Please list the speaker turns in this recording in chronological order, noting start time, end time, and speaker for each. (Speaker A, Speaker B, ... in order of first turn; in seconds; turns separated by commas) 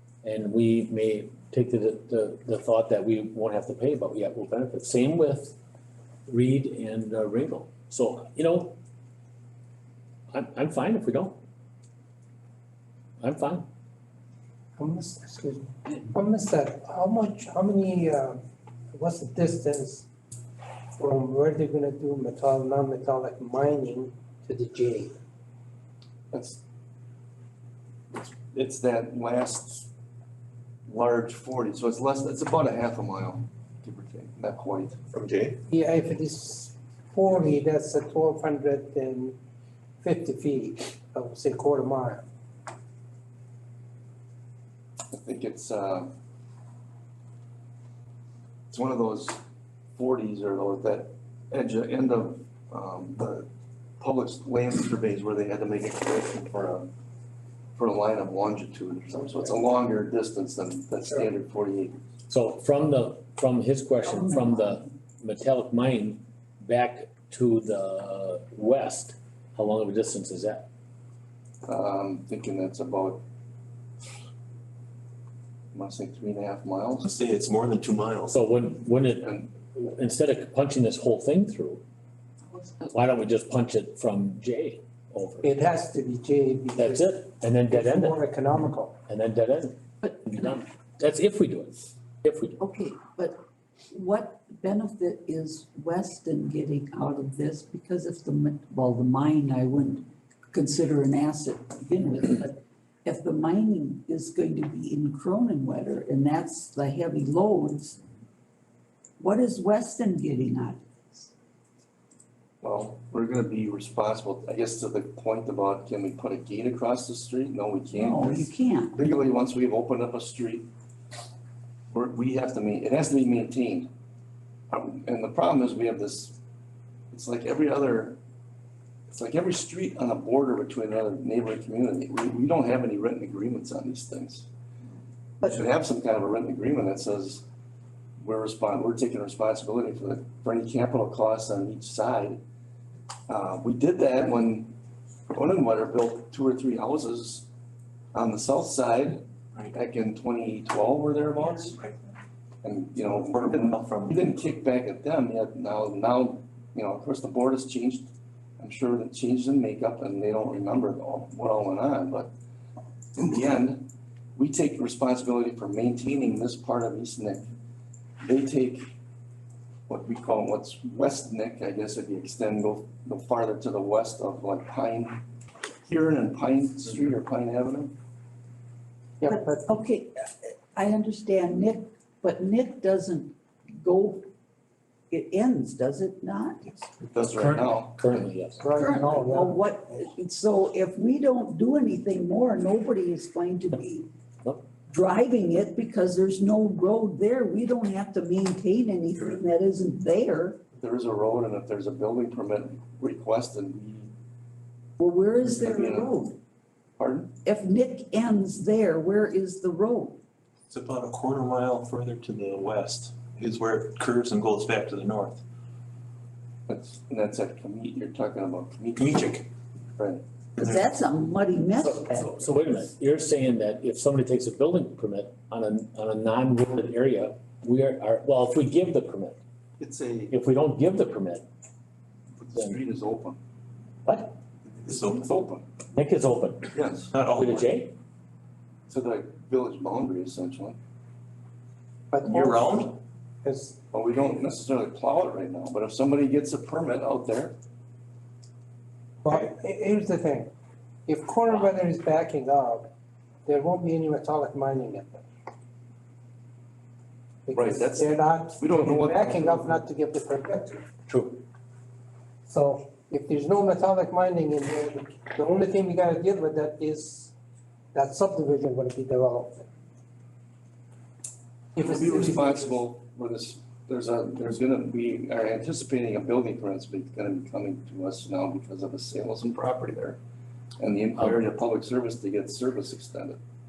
Speaker A: 0.2-5.6, Speaker A: 6.3-8.8, Speaker A: 10.3-11.4, Speaker A: 13.2-13.7, Speaker B: 14.8-18.4, Speaker B: 18.9-20.1, Speaker B: 21.0-25.1, Speaker C: 26.3-26.6, Speaker C: 28.1-29.9, Speaker C: 30.9-35.0, Speaker D: 35.1-35.6, Speaker B: 35.7-39.4, Speaker B: 40.0-42.2, Speaker C: 45.1-46.1, Speaker C: 48.7-49.4, Speaker C: 50.0-53.5, Speaker C: 54.0-56.9, Speaker C: 57.8-62.0, Speaker A: 62.3-70.7, Speaker C: 71.7-73.2, Speaker C: 75.7-77.1, Speaker D: 77.0-78.3, Speaker A: 78.3-81.8, Speaker C: 79.2-79.5, Speaker A: 82.8-85.5, Speaker B: 85.4-88.9, Speaker A: 86.8-88.2, Speaker A: 89.1-92.6, Speaker E: 90.0-90.4, Speaker E: 92.6-93.4, Speaker E: 93.9-108.0, Speaker E: 109.2-111.2, Speaker C: 112.6-120.7, Speaker E: 117.9-118.9, Speaker C: 121.9-123.9, Speaker C: 124.7-126.4, Speaker C: 127.1-128.2, Speaker C: 129.1-134.5, Speaker C: 135.4-137.4, Speaker C: 138.2-142.4, Speaker C: 143.3-144.7, Speaker C: 145.3-147.5, Speaker C: 148.1-151.8, Speaker C: 152.6-162.3, Speaker D: 153.1-154.2, Speaker C: 163.2-167.5, Speaker C: 168.2-168.9, Speaker C: 169.9-175.2, Speaker C: 175.8-177.9, Speaker B: 179.2-179.6, Speaker E: 179.2-184.3, Speaker E: 185.1-186.6, Speaker C: 187.0-188.3, Speaker A: 187.4-188.7, Speaker B: 188.6-189.6, Speaker E: 188.7-194.1, Speaker E: 194.9-200.6, Speaker C: 200.7-204.1, Speaker E: 205.0-206.3, Speaker C: 205.6-206.2, Speaker C: 207.0-207.3, Speaker E: 207.4-210.2, Speaker D: 210.7-215.4, Speaker C: 216.7-219.3, Speaker D: 219.0-219.4, Speaker C: 220.0-220.2, Speaker E: 220.6-222.3, Speaker A: 221.8-229.4, Speaker C: 229.8-230.3, Speaker A: 230.3-231.4, Speaker C: 232.4-233.4, Speaker A: 234.1-234.3, Speaker C: 234.8-235.6, Speaker D: 234.9-235.2, Speaker A: 235.9-236.7, Speaker C: 236.7-237.1, Speaker D: 237.1-237.6, Speaker A: 237.3-237.9, Speaker C: 238.9-240.8, Speaker B: 242.1-242.9, Speaker D: 242.2-242.9, Speaker B: 243.4-243.8, Speaker C: 243.9-247.5, Speaker B: 249.2-250.5, Speaker B: 251.1-252.9, Speaker B: 253.4-255.2, Speaker B: 257.5-260.9, Speaker C: 257.5-259.8, Speaker A: 261.1-261.4, Speaker B: 262.5-267.3, Speaker B: 267.9-269.7, Speaker B: 271.8-272.8, Speaker C: 271.8-280.2, Speaker C: 280.8-283.4